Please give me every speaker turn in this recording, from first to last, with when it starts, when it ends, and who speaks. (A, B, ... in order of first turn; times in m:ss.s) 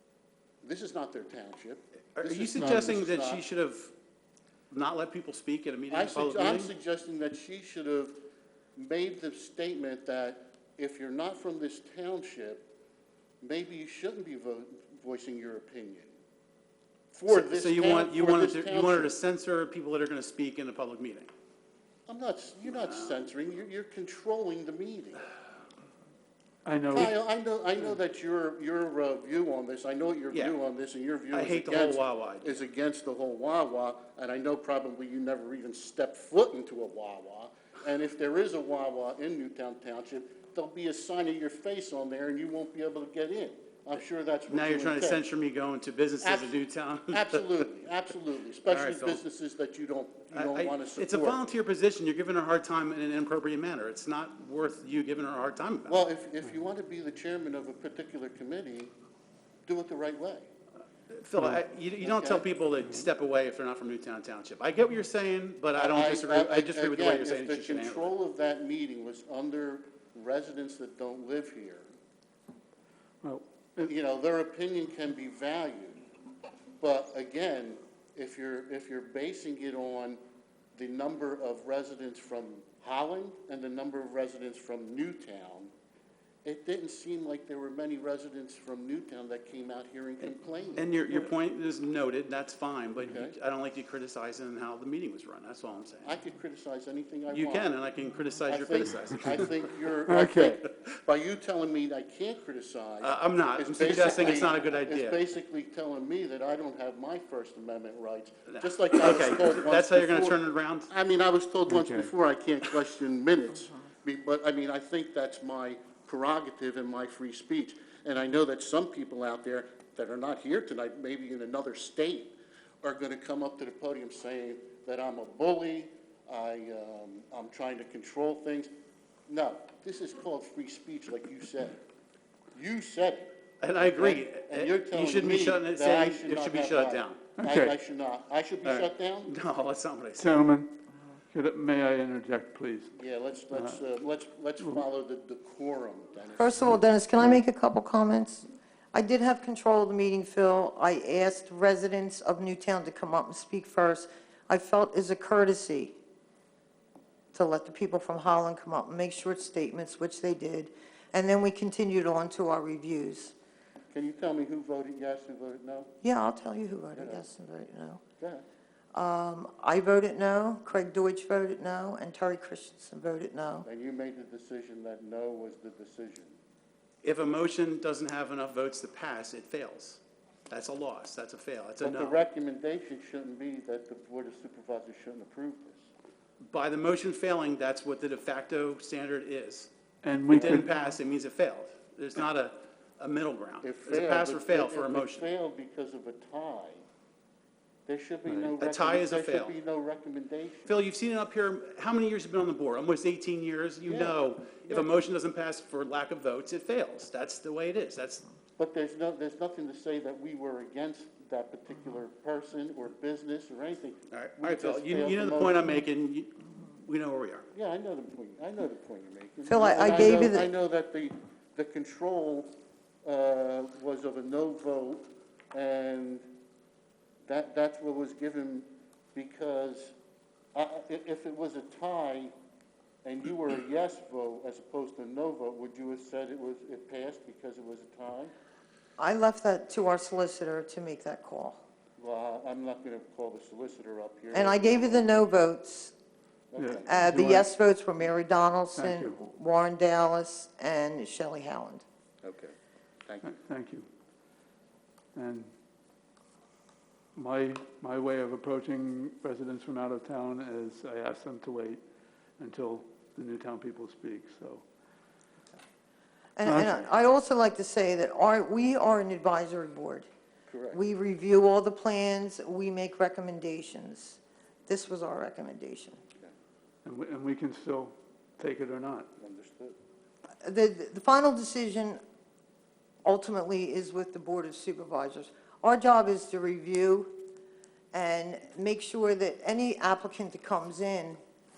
0:00.6-0:03.4 A
0:02.2-0:03.9 B
0:04.7-0:06.7 B
0:05.9-0:08.2 A
0:08.8-0:12.7 A
0:13.4-0:16.2 A
0:17.1-0:19.1 A
0:17.3-0:21.3 B
0:22.1-0:25.3 A
0:22.8-0:23.1 B
0:26.6-0:27.1 C
0:26.9-0:45.2 A
0:30.3-0:30.6 B
0:31.3-0:32.6 B
0:44.5-0:47.6 B
0:46.2-0:51.4 A
0:48.7-0:49.2 B
0:50.3-0:56.0 B
0:55.9-0:58.9 A
0:59.7-1:00.5 A
1:01.1-1:08.1 B
1:01.4-1:01.6 C
1:02.0-1:02.5 A
1:05.7-1:11.9 A
1:13.2-1:13.9 C
1:13.8-1:16.0 A
1:16.8-1:20.2 A
1:20.8-1:25.7 A
1:26.4-1:30.9 A
1:30.8-1:36.2 B
1:33.0-1:33.3 A
1:36.0-1:37.7 A
1:37.3-1:39.5 B
1:38.4-2:08.7 A
1:40.0-1:40.6 C
1:43.0-1:45.2 B
1:48.5-1:50.9 B
1:51.7-1:52.1 C
2:09.3-2:11.8 A
2:12.5-2:19.3 A
2:13.6-2:17.3 B
2:17.4-2:17.8 C
2:18.6-2:20.5 B
2:20.2-2:20.8 C
2:21.3-2:22.9 C
2:22.9-2:26.6 A
2:23.5-2:23.8 C
2:26.4-2:35.9 D
2:26.6-2:27.4 C
2:37.3-2:43.3 D
2:43.9-2:45.9 A
2:46.0-2:48.0 D
2:46.9-2:47.2 A
2:48.2-2:48.4 A
2:48.9-2:53.7 D
2:53.7-2:56.4 A
2:57.0-3:02.2 B
3:01.8-3:05.9 A
3:06.5-3:09.7 B
3:10.0-3:10.7 C
3:10.3-3:15.3 B
3:13.6-3:16.8 A
3:17.9-3:20.8 A
3:18.3-3:18.5 C
3:18.6-3:19.5 B
3:20.7-3:28.2 B
3:23.8-3:24.9 A
3:28.6-3:35.7 A
3:34.1-3:37.5 B
3:37.5-3:42.5 A
3:39.5-3:40.5 D
3:43.0-3:46.3 A
3:47.2-3:49.9 A
3:50.5-3:52.3 A
3:53.0-3:58.3 A
3:59.0-4:01.6 D
4:02.0-4:05.3 A
4:04.3-4:05.9 D
4:06.5-4:06.9 A
4:06.6-4:07.5 C
4:06.8-4:11.8 D
4:08.8-4:09.2 C
4:12.2-4:12.5 A
4:13.1-4:13.3 A
4:13.2-4:13.9 C
4:15.1-4:15.5 C
4:17.1-4:21.8 C
4:22.4-4:24.6 C
4:26.4-4:30.1 D
4:26.4-4:26.9 C
4:30.5-4:30.8 A
4:30.7-4:36.0 D
4:36.8-4:39.1 C
4:39.2-4:39.8 A
4:40.4-4:42.0 D
4:43.0-4:47.2 D
4:47.9-4:51.2 D